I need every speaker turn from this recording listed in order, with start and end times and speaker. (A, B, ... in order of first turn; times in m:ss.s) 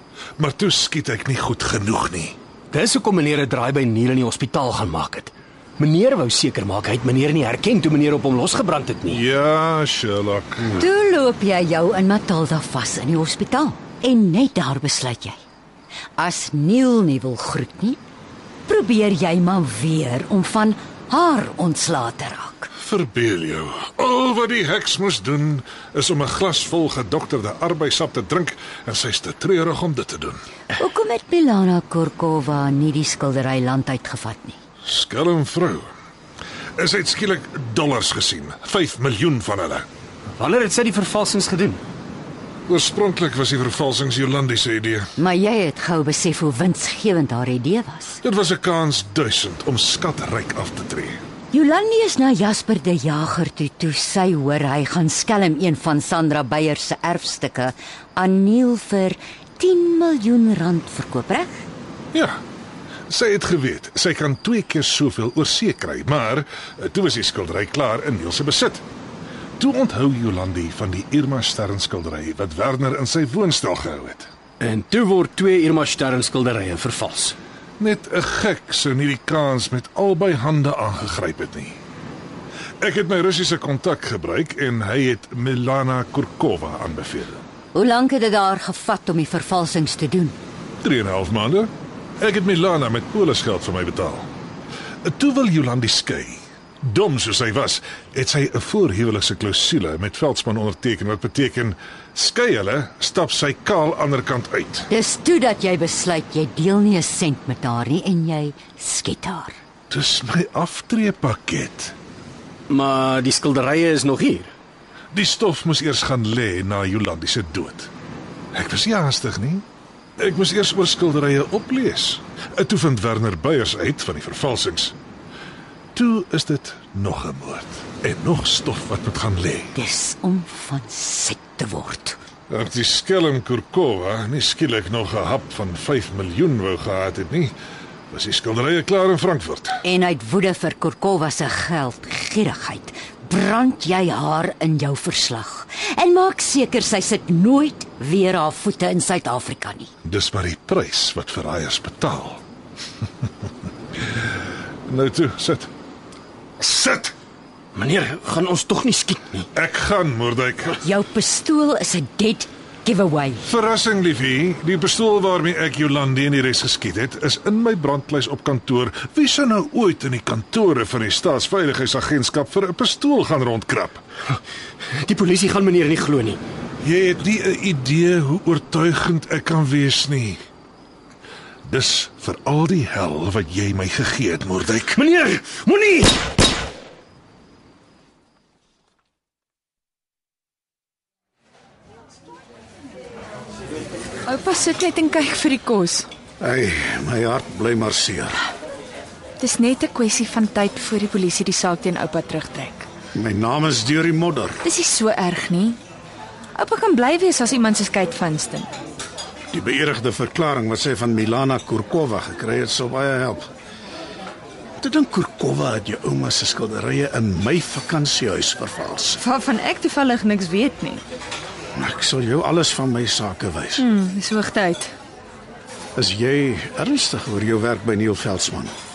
0:00.4-0:02.4 A
0:02.7-0:09.2 B
0:09.1-0:10.8 A
0:10.8-0:15.4 C
0:16.2-0:18.0 C
0:18.7-0:22.7 C
0:22.8-0:30.4 A
0:30.7-0:34.6 C
0:34.8-0:35.9 A
0:36.8-0:39.9 A
0:40.4-0:41.8 B
0:42.7-0:45.1 A
0:45.2-0:48.2 C
0:48.2-0:51.2 A
0:51.5-1:01.7 C
1:02.1-1:02.4 A
1:03.1-1:08.8 A
1:09.6-1:14.3 A
1:14.6-1:17.4 B
1:17.8-1:21.8 A
1:22.8-1:27.4 A
1:27.7-1:30.4 C
1:30.8-1:34.3 A
1:35.0-1:44.9 A
1:44.9-1:49.6 C
1:49.9-1:52.0 A
1:52.7-1:54.5 B
1:55.1-1:57.9 A
1:58.5-1:59.6 A
2:00.2-2:05.0 A
2:06.0-2:09.7 A
2:09.8-2:12.2 C
2:12.5-2:17.5 A
2:18.1-2:19.8 A
2:19.8-2:29.9 C
2:30.0-2:32.4 A
2:34.9-2:35.7 A
2:36.6-2:37.1 A
2:37.8-2:39.5 B
2:39.6-2:40.8 A
2:40.8-2:43.4 C
2:43.4-2:54.0 A
2:55.0-2:56.4 B
2:56.8-3:00.4 A
3:01.6-3:05.0 A
3:05.0-3:06.1 B
3:14.3-3:16.1 D
3:16.4-3:18.4 E
3:19.4-3:22.9 D
3:23.1-3:24.6 E
3:24.6-3:25.8 D
3:26.6-3:28.7 D
3:29.5-3:33.4 E
3:34.8-3:39.2 E
3:39.2-3:41.0 D
3:41.8-3:43.9 E
3:43.8-3:44.9 D
3:46.0-3:48.7 E